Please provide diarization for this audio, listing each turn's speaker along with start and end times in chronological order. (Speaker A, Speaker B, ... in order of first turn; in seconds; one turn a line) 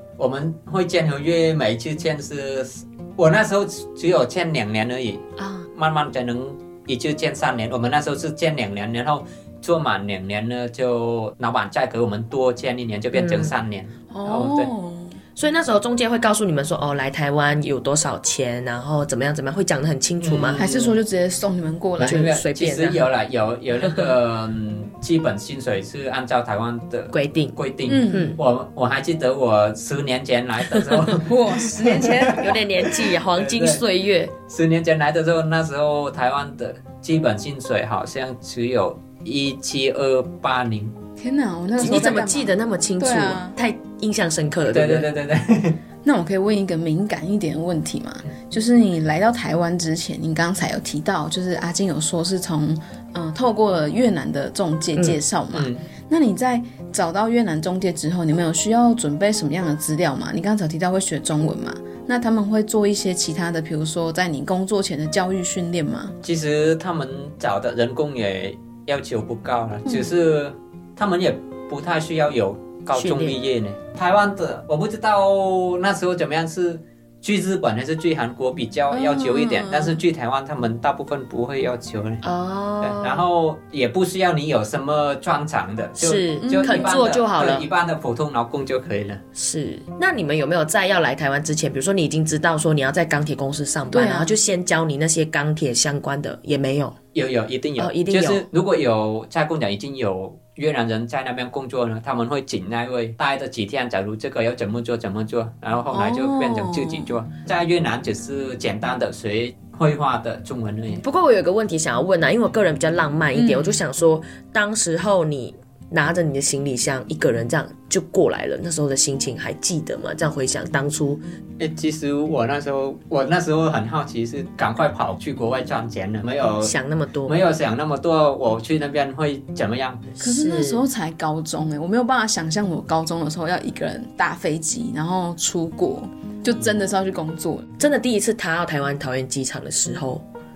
Speaker A: 0.2-14.7
Speaker B: 5.4-5.7
Speaker B: 13.1-13.5
Speaker C: 14.1-15.2
Speaker B: 15.3-20.6
Speaker A: 20.2-21.0
Speaker C: 20.6-22.3
Speaker A: 22.0-33.8
Speaker B: 22.0-23.1
Speaker B: 27.1-27.6
Speaker C: 27.9-28.4
Speaker B: 28.1-28.4
Speaker B: 30.7-31.1
Speaker C: 31.1-32.5
Speaker B: 32.3-34.3
Speaker A: 34.5-40.9
Speaker C: 41.2-43.5
Speaker B: 41.8-45.1
Speaker A: 44.7-45.8
Speaker C: 46.0-66.1
Speaker A: 55.5-55.8
Speaker A: 66.2-82.2
Speaker C: 69.8-70.1
Speaker B: 72.9-73.4
Speaker C: 78.9-80.0
Speaker B: 82.2-83.2
Speaker A: 82.8-89.2
Speaker B: 86.0-87.7
Speaker C: 86.4-87.0
Speaker B: 89.3-96.9
Speaker C: 93.9-94.4
Speaker A: 97.1-111.0
Speaker B: 97.8-98.5
Speaker C: 105.9-107.1
Speaker B: 111.0-121.2
Speaker C: 113.3-113.8
Speaker A: 121.6-126.7
Speaker B: 126.6-127.4
Speaker A: 127.2-130.2
Speaker B: 130.2-130.9
Speaker C: 130.2-137.7
Speaker B: 137.8-140.2